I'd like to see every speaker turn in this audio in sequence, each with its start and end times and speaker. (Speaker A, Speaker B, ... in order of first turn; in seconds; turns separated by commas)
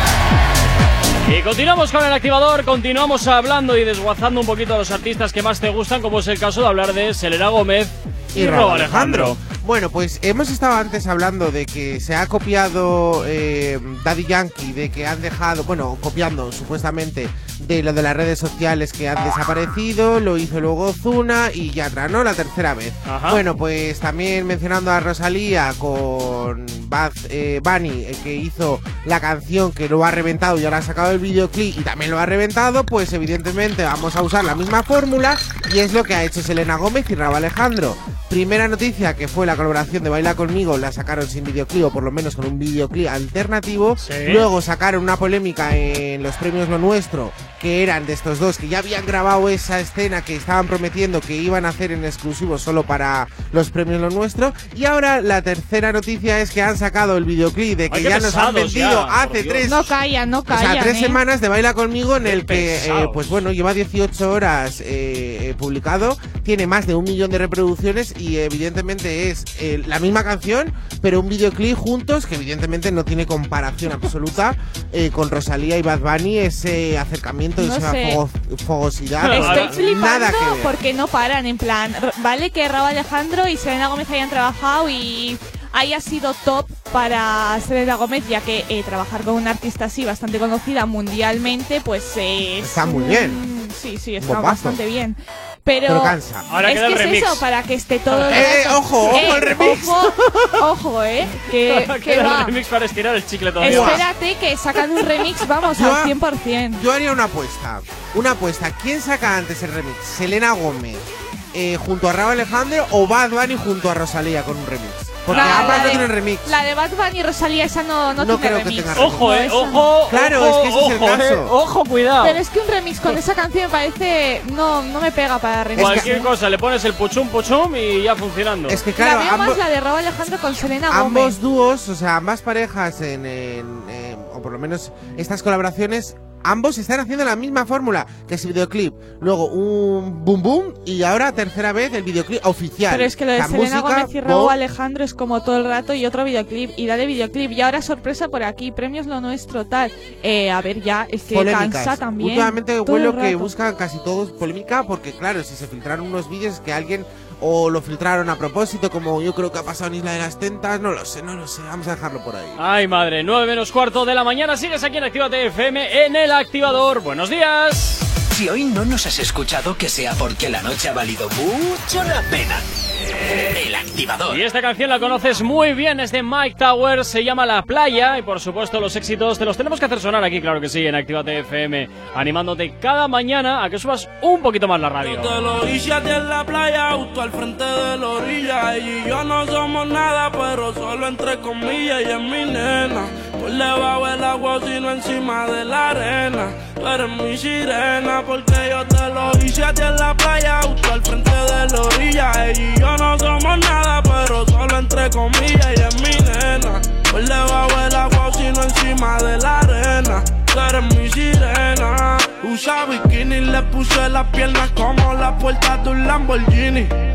Speaker A: 1.2-9.4, Speaker B: 8.3-59.9, Speaker A: 23.1-23.4, Speaker A: 44.0-44.5, Speaker A: 57.9-59.6, Speaker C: 59.6-61.2, Speaker B: 60.5-80.7, Speaker A: 62.2-63.2, Speaker C: 77.6-78.2, Speaker C: 79.2-102.5, Speaker A: 79.2-79.7, Speaker B: 92.6-93.4, Speaker B: 94.2-94.8, Speaker B: 95.8-96.5, Speaker A: 96.5-97.4, Speaker A: 98.1-98.5, Speaker B: 98.3-100.5, Speaker A: 101.7-104.0, Speaker C: 103.6-106.8, Speaker B: 103.6-104.0, Speaker B: 105.7-106.1, Speaker B: 106.8-116.5, Speaker A: 115.3-116.1, Speaker C: 115.3-119.8, Speaker B: 118.2-119.4, Speaker A: 118.9-122.4, Speaker B: 120.1-121.5, Speaker C: 122.2-126.3, Speaker B: 125.7-126.1, Speaker A: 125.8-128.8, Speaker B: 128.7-129.6, Speaker C: 129.0-131.3, Speaker B: 130.9-144.6, Speaker C: 142.9-153.5, Speaker B: 151.3-162.6, Speaker A: 162.6-168.1, Speaker D: 168.3-172.6, Speaker D: 173.5-174.4, Speaker A: 174.3-185.4, Speaker E: 185.0-217.0